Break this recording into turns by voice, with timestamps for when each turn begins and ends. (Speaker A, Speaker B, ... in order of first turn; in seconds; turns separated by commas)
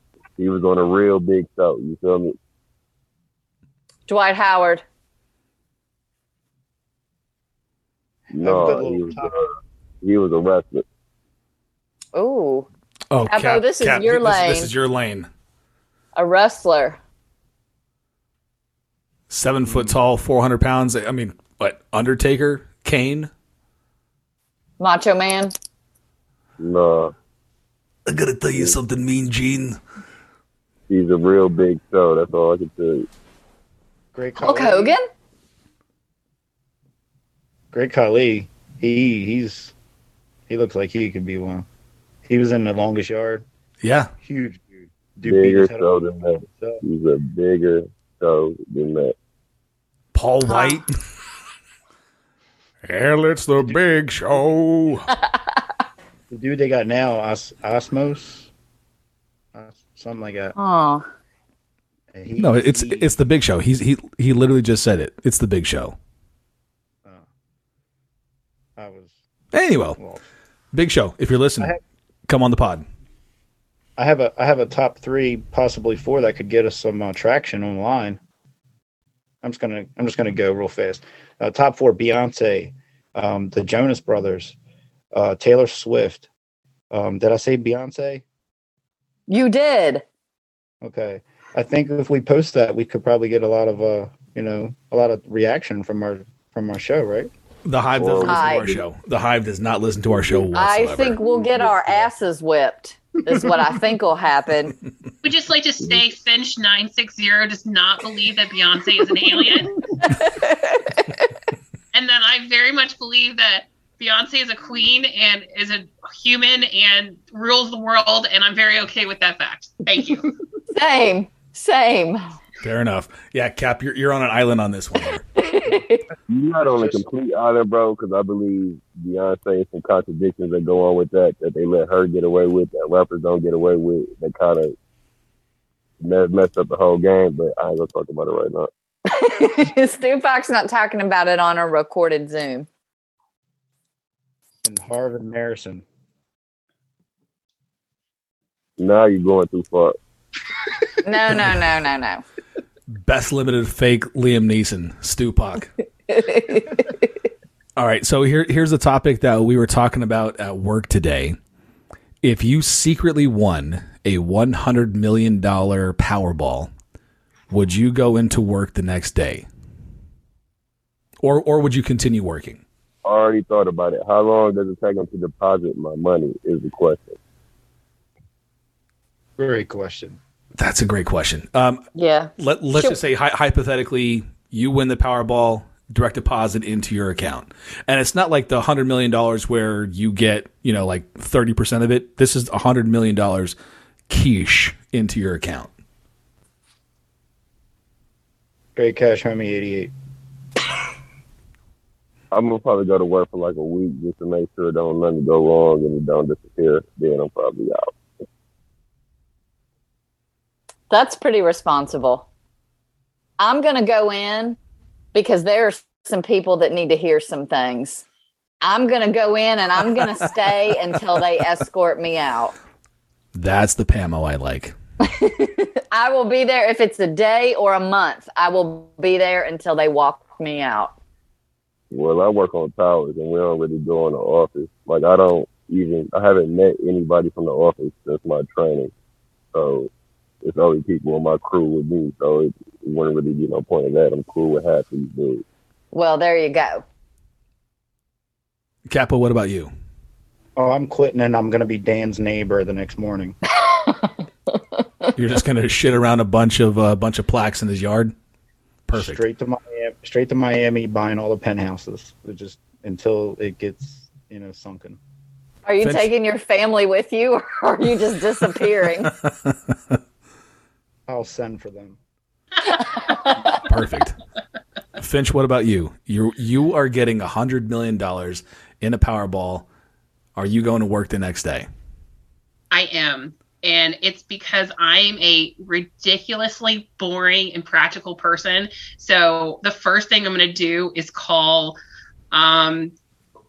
Speaker A: 0.4-2.4, Speaker B: 4.1-4.8, Speaker A: 8.3-10.8, Speaker C: 8.4-9.3, Speaker B: 12.1-12.7, Speaker D: 13.1-15.3, Speaker B: 13.3-14.7, Speaker B: 16.1-17.0, Speaker D: 19.3-23.3, Speaker B: 24.8-25.5, Speaker A: 26.6-27.1, Speaker D: 28.1-29.8, Speaker A: 30.9-33.1, Speaker C: 34.1-35.0, Speaker B: 34.4-35.0, Speaker C: 37.7-39.7, Speaker C: 40.5-41.6, Speaker C: 42.2-43.4, Speaker D: 43.8-44.1, Speaker C: 44.2-46.8, Speaker A: 45.2-49.1, Speaker D: 50.1-50.9, Speaker B: 50.5-50.8, Speaker D: 52.8-55.1, Speaker C: 56.3-58.5, Speaker C: 59.5-60.5, Speaker B: 60.5-61.0, Speaker C: 62.1-63.1, Speaker D: 62.4-66.0, Speaker C: 68.8-69.1, Speaker D: 69.5-70.0, Speaker D: 70.7-71.7, Speaker D: 72.3-72.8, Speaker C: 74.0-78.2, Speaker C: 79.4-84.5, Speaker C: 85.1-86.3, Speaker C: 86.9-88.2, Speaker B: 89.3-90.0, Speaker C: 90.8-97.3, Speaker D: 97.6-101.2, Speaker A: 98.0-98.8, Speaker B: 98.2-98.7, Speaker A: 100.1-100.5, Speaker B: 100.5-104.8, Speaker A: 101.2-102.1, Speaker E: 105.2-109.9, Speaker B: 110.0-111.1, Speaker E: 111.9-120.3, Speaker B: 120.7-122.3, Speaker D: 122.6-125.2, Speaker B: 125.3-126.1, Speaker A: 126.3-134.7, Speaker C: 126.7-127.0, Speaker A: 136.0-138.7, Speaker B: 139.1-142.7, Speaker C: 144.6-145.8, Speaker A: 148.8-149.9, Speaker B: 151.0-152.2, Speaker D: 152.9-155.7, Speaker B: 156.1-156.9, Speaker D: 157.8-161.4, Speaker D: 162.2-166.7, Speaker D: 167.5-169.4, Speaker D: 171.2-172.6, Speaker A: 173.0-177.2, Speaker C: 179.4-180.2, Speaker D: 180.6-181.8, Speaker B: 181.9-183.0, Speaker D: 182.4-193.5, Speaker D: 194.1-195.7, Speaker C: 198.7-199.9, Speaker A: 202.3-208.2, Speaker B: 210.9-212.3, Speaker B: 213.4-214.6, Speaker B: 215.1-218.0, Speaker B: 218.6-222.5, Speaker D: 223.3-224.7, Speaker B: 225.0-230.9, Speaker A: 231.9-238.9, Speaker A: 239.5-239.9, Speaker A: 240.4-245.4, Speaker B: 245.9-246.8, Speaker D: 248.9-249.7, Speaker C: 250.6-253.4, Speaker B: 253.6-254.1, Speaker D: 255.2-258.1, Speaker D: 258.9-259.2, Speaker C: 258.9-265.0, Speaker B: 265.6-269.1, Speaker D: 265.8-266.1, Speaker D: 269.3-270.0, Speaker C: 271.1-272.0, Speaker D: 273.6-274.2, Speaker D: 275.0-279.6, Speaker D: 280.4-281.6, Speaker E: 282.7-291.8, Speaker E: 292.3-292.9